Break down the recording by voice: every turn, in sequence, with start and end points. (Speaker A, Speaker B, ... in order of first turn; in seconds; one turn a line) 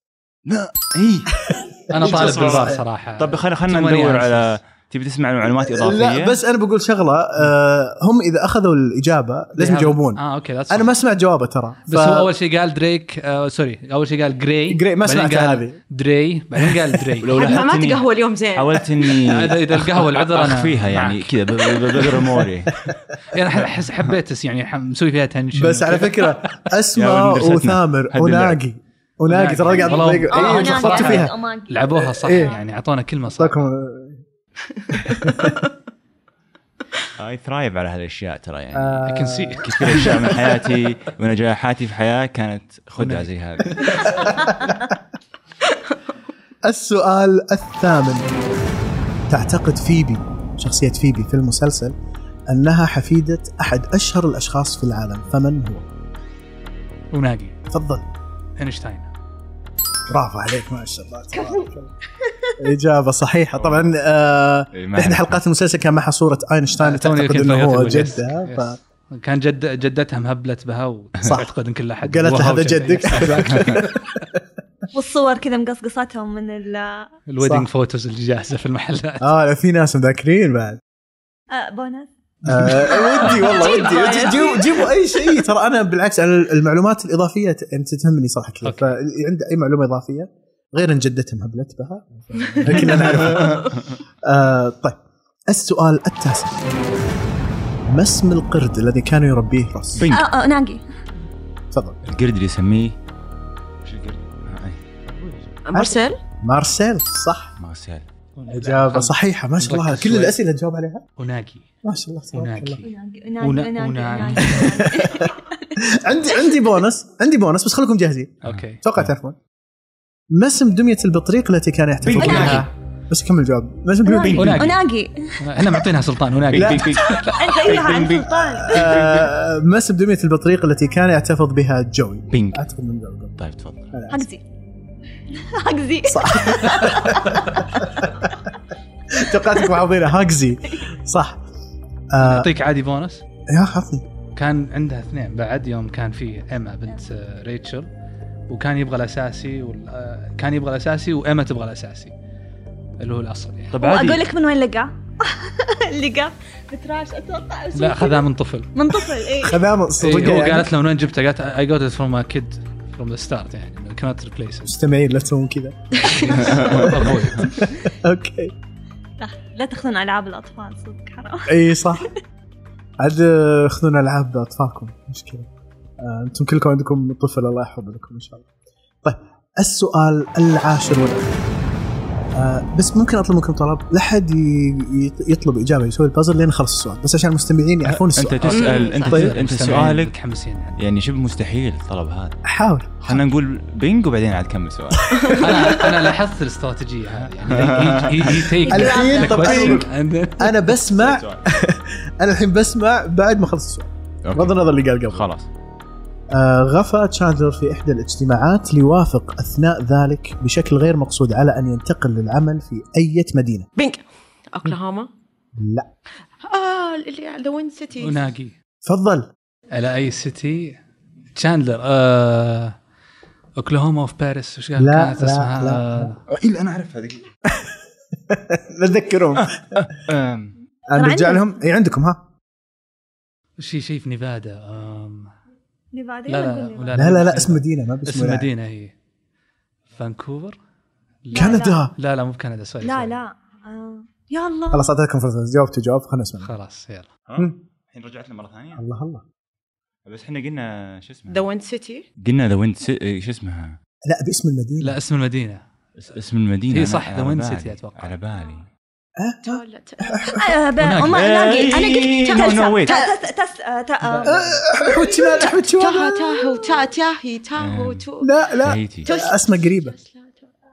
Speaker A: 0.5-1.4
Speaker B: 1.5-2.8
Speaker C: 1.9-4.6
Speaker A: 1.9-6.4
Speaker B: 5.5-12.3
Speaker C: 9.6-10.9
Speaker C: 11.9-17.6
Speaker B: 14.7-15.8
Speaker A: 17.2-22.8
Speaker D: 17.3-19.0
Speaker C: 19.2-21.3
Speaker B: 22.2-23.0
Speaker C: 23.3-26.4
Speaker B: 25.6-31.3
Speaker A: 27.0-28.6
Speaker C: 29.3-33.5
Speaker E: 29.8-32.6
Speaker B: 32.2-32.6
Speaker B: 33.4-34.2
Speaker D: 34.8-35.6
Speaker B: 34.9-35.6
Speaker A: 37.2-39.0
Speaker B: 38.7-40.2
Speaker C: 39.0-40.2
Speaker A: 39.6-44.3
Speaker C: 43.0-44.1
Speaker B: 43.9-44.8
Speaker B: 46.6-48.3
Speaker B: 49.3-52.0
Speaker B: 52.5-55.9
Speaker C: 57.1-57.6
Speaker B: 57.7-58.1
Speaker C: 58.6-59.1
Speaker B: 60.1-61.9
Speaker E: 61.3-61.7
Speaker E: 62.2-62.5
Speaker B: 62.6-68.8
Speaker A: 63.6-63.9
Speaker A: 64.7-65.4
Speaker C: 66.8-74.2
Speaker B: 71.2-71.5
Speaker B: 72.0-74.4
Speaker A: 73.5-73.8
Speaker E: 74.9-77.1
Speaker C: 77.3-79.3
Speaker B: 77.4-77.7
Speaker B: 79.2-80.8
Speaker E: 81.5-84.9
Speaker B: 82.5-95.0
Speaker C: 88.6-89.0
Speaker A: 92.8-93.8
Speaker B: 95.5-96.6
Speaker B: 97.9-100.1
Speaker A: 100.0-100.3
Speaker E: 100.1-100.8
Speaker B: 101.7-102.0
Speaker A: 102.0-103.0
Speaker A: 103.8-104.8
Speaker D: 105.7-106.2
Speaker B: 105.7-107.5
Speaker A: 107.6-108.1
Speaker C: 108.4-110.4
Speaker B: 108.5-111.0
Speaker C: 111.2-111.7
Speaker B: 111.8-112.8
Speaker C: 112.3-114.8
Speaker E: 112.8-115.8
Speaker B: 114.5-119.4
Speaker E: 116.3-116.6
Speaker C: 118.4-118.8
Speaker B: 120.3-124.6
Speaker A: 122.0-122.7
Speaker E: 122.2-122.6
Speaker C: 122.2-122.7
Speaker E: 124.1-125.4
Speaker A: 124.1-124.7
Speaker C: 124.4-124.8
Speaker C: 125.4-127.8
Speaker A: 126.5-129.3
Speaker B: 126.5-126.9
Speaker E: 127.4-128.9
Speaker B: 128.6-133.4
Speaker A: 132.3-132.6
Speaker A: 133.4-133.9
Speaker B: 133.9-134.3
Speaker E: 134.1-134.4
Speaker E: 135.4-137.6
Speaker B: 136.1-138.3
Speaker B: 139.1-141.4
Speaker B: 142.1-142.5
Speaker C: 142.2-143.2
Speaker B: 143.5-144.1
Speaker C: 144.3-147.9
Speaker C: 148.5-152.1
Speaker C: 153.0-153.8
Speaker A: 153.7-154.2
Speaker E: 153.8-159.6
Speaker C: 157.8-158.7
Speaker B: 159.4-160.7
Speaker C: 160.0-164.8
Speaker B: 164.7-168.5
Speaker C: 166.1-167.6
Speaker A: 166.3-167.4
Speaker E: 169.2-172.1
Speaker B: 171.5-172.1
Speaker B: 173.0-175.5
Speaker B: 176.0-178.5
Speaker B: 179.0-181.4
Speaker B: 182.3-189.3
Speaker A: 187.9-190.2
Speaker C: 188.4-190.8
Speaker D: 188.5-189.1
Speaker A: 190.8-192.4
Speaker B: 192.4-193.2
Speaker A: 193.0-195.5
Speaker B: 195.0-195.5
Speaker D: 195.3-196.0
Speaker C: 195.3-200.7
Speaker A: 197.2-198.5
Speaker E: 198.7-199.8
Speaker B: 198.7-205.3
Speaker A: 200.9-201.4
Speaker A: 204.2-204.6
Speaker A: 205.1-205.5
Speaker B: 206.3-213.7
Speaker D: 213.8-215.1
Speaker B: 215.6-215.9
Speaker D: 216.4-218.2
Speaker C: 218.0-218.6
Speaker B: 218.8-219.3
Speaker C: 219.7-220.8
Speaker C: 221.3-222.8
Speaker C: 223.6-226.2
Speaker B: 224.8-226.1
Speaker A: 226.3-227.3
Speaker B: 227.5-227.8
Speaker B: 228.3-229.9
Speaker A: 229.4-230.6
Speaker B: 230.9-232.2
Speaker E: 230.9-231.4
Speaker C: 233.6-235.3
Speaker E: 235.9-237.1
Speaker C: 236.3-238.9
Speaker B: 236.9-238.5
Speaker C: 239.9-240.6
Speaker C: 241.2-243.2
Speaker E: 241.3-241.8
Speaker B: 241.3-241.9
Speaker E: 242.8-244.9
Speaker B: 244.7-246.5
Speaker C: 246.4-247.1
Speaker A: 247.3-248.8
Speaker B: 248.8-249.2
Speaker A: 250.1-251.4
Speaker D: 251.3-252.1
Speaker A: 252.2-253.8
Speaker B: 254.1-255.0
Speaker C: 254.8-255.6
Speaker A: 256.0-258.7
Speaker C: 256.7-258.2
Speaker B: 259.2-260.5
Speaker D: 259.4-260.4
Speaker E: 260.3-266.9
Speaker C: 260.8-261.3
Speaker A: 261.1-263.0
Speaker D: 261.6-263.2
Speaker C: 264.1-264.6
Speaker B: 264.2-266.2
Speaker D: 265.8-268.3
Speaker A: 267.6-268.1
Speaker B: 268.2-269.9
Speaker A: 268.6-269.1
Speaker D: 269.1-270.5